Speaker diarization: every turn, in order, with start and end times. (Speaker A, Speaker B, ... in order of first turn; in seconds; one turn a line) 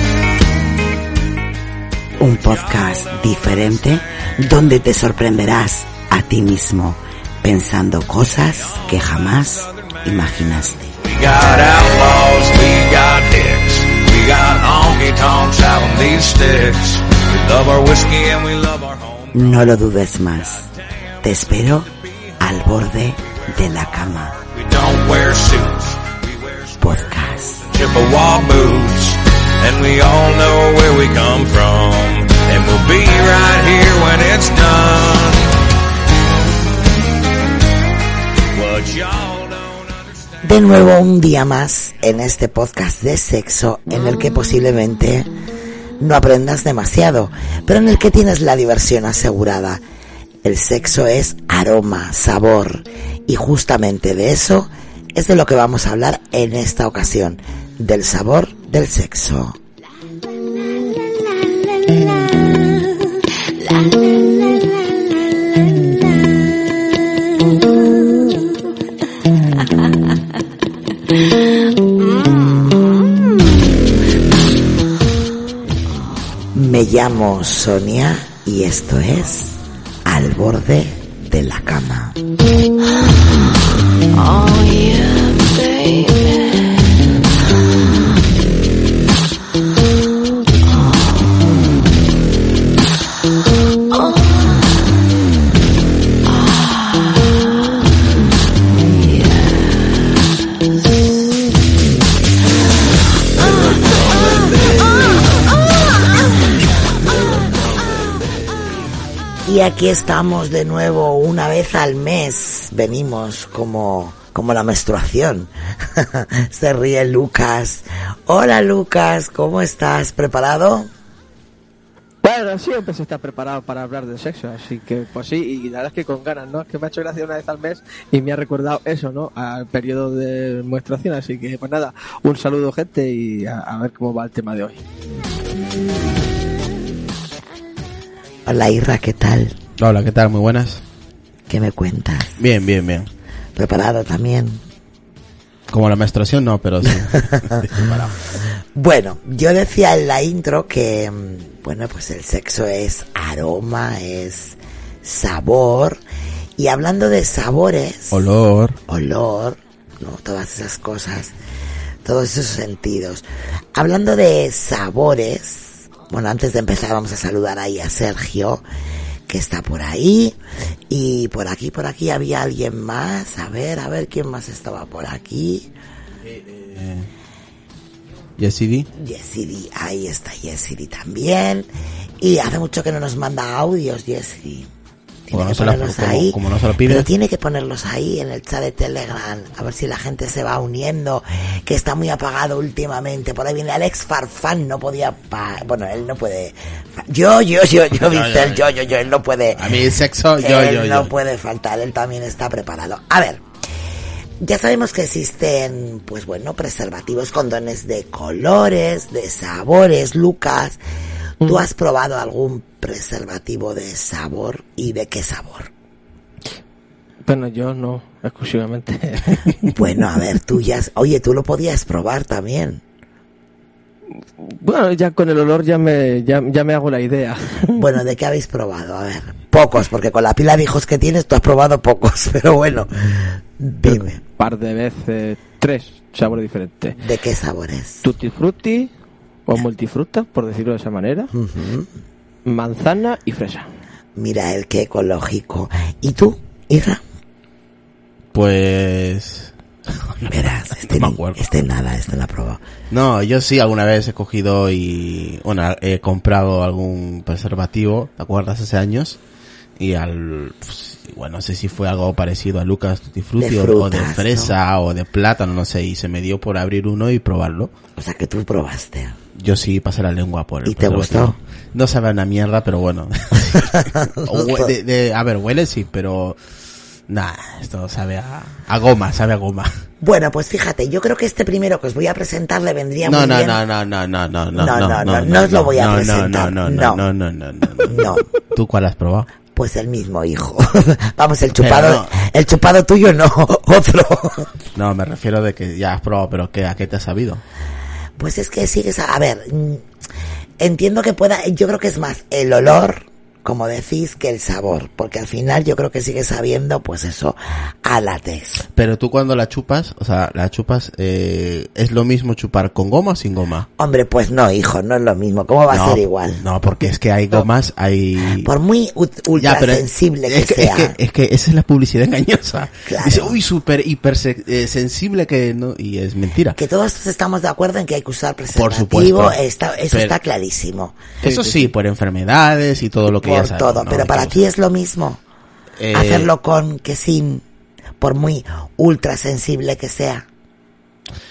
Speaker A: 2.2-4.3
Speaker B: 2.2-10.9
Speaker A: 8.4-19.8
Speaker B: 19.3-20.7
Speaker A: 20.4-35.5
Speaker B: 21.2-21.9
Speaker B: 22.4-24.4
Speaker B: 26.8-27.7
Speaker A: 38.5-40.7
Speaker B: 40.4-45.3
Speaker B: 46.0-49.8
Speaker B: 50.4-59.6
Speaker B: 76.5-82.2
Speaker B: 84.3-85.0
Speaker B: 109.5-120.9
Speaker C: 122.2-134.8
Speaker B: 138.5-139.6
Speaker D: 139.8-140.8
Speaker B: 141.5-142.4
Speaker D: 142.4-143.1
Speaker B: 143.6-144.6
Speaker D: 145.7-148.2
Speaker B: 147.1-147.9
Speaker B: 148.8-156.0
Speaker B: 156.6-158.3
Speaker D: 158.1-158.8
Speaker B: 158.9-161.3
Speaker B: 162.0-168.6
Speaker B: 169.3-170.4
Speaker B: 170.9-175.7
Speaker D: 176.2-177.1
Speaker D: 178.4-178.9
Speaker B: 178.9-181.7
Speaker B: 182.2-184.7
Speaker B: 185.3-199.7
Speaker D: 185.3-187.1
Speaker D: 198.0-198.8
Speaker D: 199.6-201.1
Speaker B: 200.4-203.4
Speaker B: 204.4-210.8
Speaker C: 211.4-211.7
Speaker B: 211.4-215.7
Speaker C: 217.2-219.7
Speaker B: 219.7-222.8
Speaker C: 224.4-227.8
Speaker B: 227.8-234.2
Speaker C: 233.8-237.0
Speaker B: 237.0-238.0
Speaker C: 238.0-238.9
Speaker C: 239.5-241.3
Speaker B: 241.3-241.9
Speaker C: 242.5-243.7
Speaker B: 244.2-247.0
Speaker D: 248.3-251.4
Speaker B: 250.3-252.6
Speaker D: 252.9-259.2
Speaker D: 259.8-267.7
Speaker B: 263.4-264.5
Speaker B: 268.0-269.2
Speaker D: 269.4-276.4
Speaker B: 270.6-271.4
Speaker B: 273.7-274.7
Speaker D: 277.1-279.8
Speaker B: 280.0-283.6
Speaker D: 283.0-289.3
Speaker B: 284.5-287.0
Speaker B: 287.9-288.2
Speaker B: 289.5-294.6
Speaker D: 291.6-292.1
Speaker D: 294.8-297.4
Speaker B: 298.2-299.8
Speaker B: 300.6-308.7
Speaker D: 308.8-313.7
Speaker B: 313.8-316.4
Speaker D: 315.7-318.5
Speaker B: 318.4-321.0
Speaker D: 319.4-326.6
Speaker B: 322.9-323.4
Speaker B: 326.6-331.0
Speaker D: 328.5-329.4
Speaker C: 331.2-331.7
Speaker D: 331.2-334.4
Speaker B: 333.1-335.2
Speaker D: 335.8-336.3
Speaker B: 335.9-337.4
Speaker B: 338.0-340.3